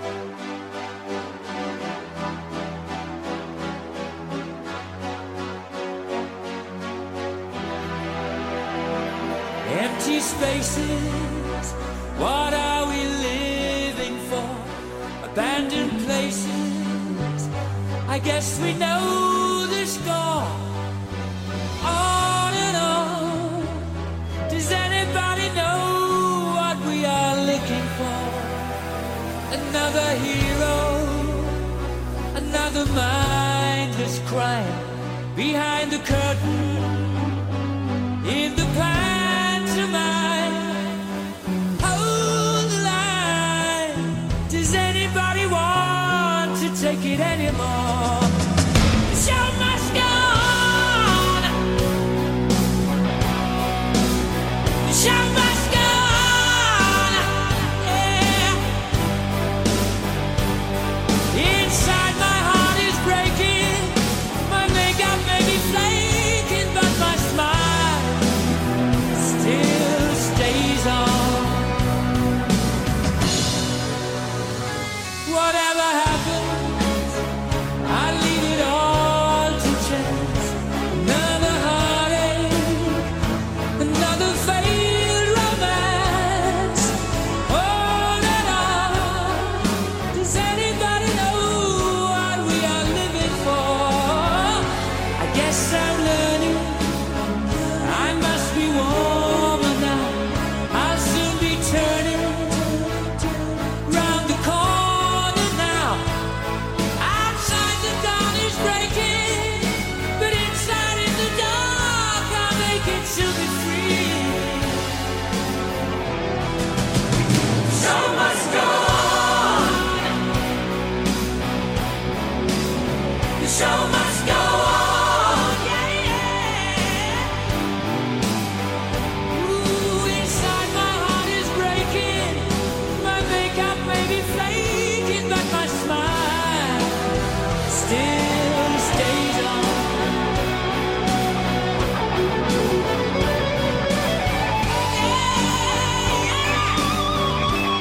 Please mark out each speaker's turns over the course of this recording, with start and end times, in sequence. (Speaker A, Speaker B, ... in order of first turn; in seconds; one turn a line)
Speaker A: 9.6-17.5
Speaker A: 18.1-20.9
Speaker A: 21.8-23.9
Speaker A: 24.5-28.8
Speaker A: 29.5-31.6
Speaker A: 32.3-37.4
Speaker A: 38.2-41.0
Speaker A: 41.8-48.4
Speaker A: 49.1-51.5
Speaker A: 54.8-58.8
Speaker A: 61.3-68.3
Speaker A: 69.1-71.8
Speaker A: 75.2-77.2
Speaker A: 77.8-83.1
Speaker A: 83.8-106.2
Speaker A: 107.0-114.9
Speaker A: 117.7-119.9
Speaker A: 123.4-127.3
Speaker A: 129.3-137.2
Speaker A: 137.7-140.0
Speaker A: 145.0-146.4